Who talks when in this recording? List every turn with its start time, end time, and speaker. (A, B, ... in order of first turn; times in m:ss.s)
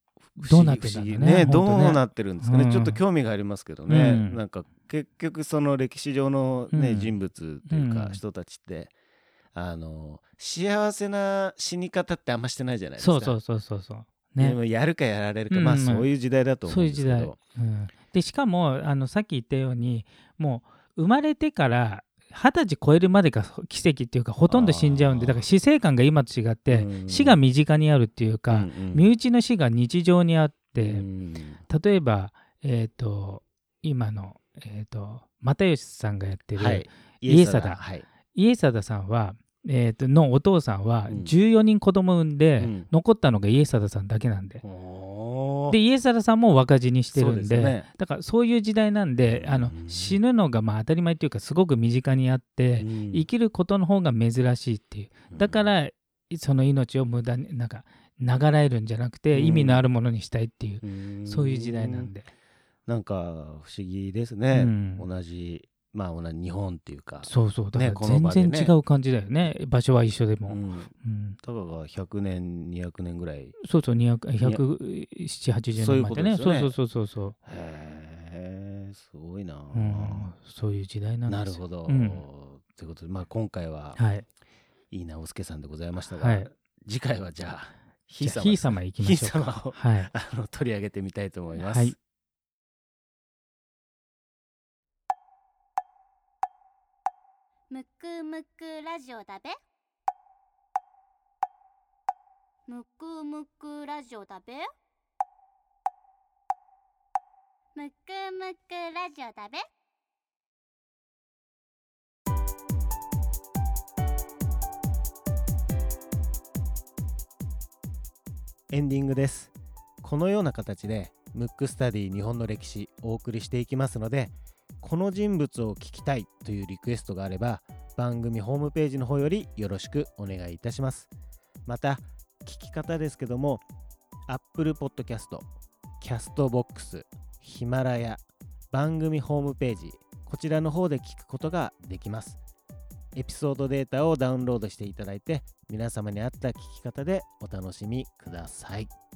0:00.3-0:08.9 A
0:00.4-0:03.0 B
0:03.9-0:04.4 B
0:06.7-0:07.1 B
0:07.7-0:08.2 B
0:09.5-0:13.4 A
0:13.0-0:14.6 B
0:14.4-0:17.4 A
0:15.5-0:16.1 B
0:16.7-0:31.0 B
0:24.5-0:25.5 A
0:26.7-0:27.4 A
0:28.5-0:29.1 A
0:30.8-0:31.6 A
0:31.7-0:37.8 B
0:36.6-0:38.1 A
0:38.3-0:44.6 B
0:41.1-0:41.3 A
0:42.6-0:42.9 A
0:44.6-0:45.8 A
0:45.7-1:02.3 B
0:47.1-0:47.9 A
0:49.3-0:50.2 A
0:52.8-0:53.3 A
0:55.3-0:55.6 A
0:59.3-0:59.8 A
1:00.8-1:02.1 A
1:02.9-1:08.7 A
1:04.5-1:05.1 B
1:07.2-1:11.4 B
1:10.5-1:10.9 A
1:11.4-1:13.6 A
1:13.6-1:17.4 B
1:15.8-1:16.8 A
1:17.5-1:20.3 A
1:19.7-1:22.2 B
1:21.3-1:24.0 A
1:24.0-1:24.3 B
1:24.9-1:32.0 A
1:26.2-1:26.5 B
1:28.2-1:30.1 B
1:31.6-1:32.0 B
1:37.7-1:39.6 C
1:42.7-1:44.7 C
1:47.8-1:49.6 C
1:58.7-2:11.1 A
2:11.7-2:13.6 A
2:14.3-2:15.5 A
2:16.0-2:22.4 A
2:23.1-2:28.9 A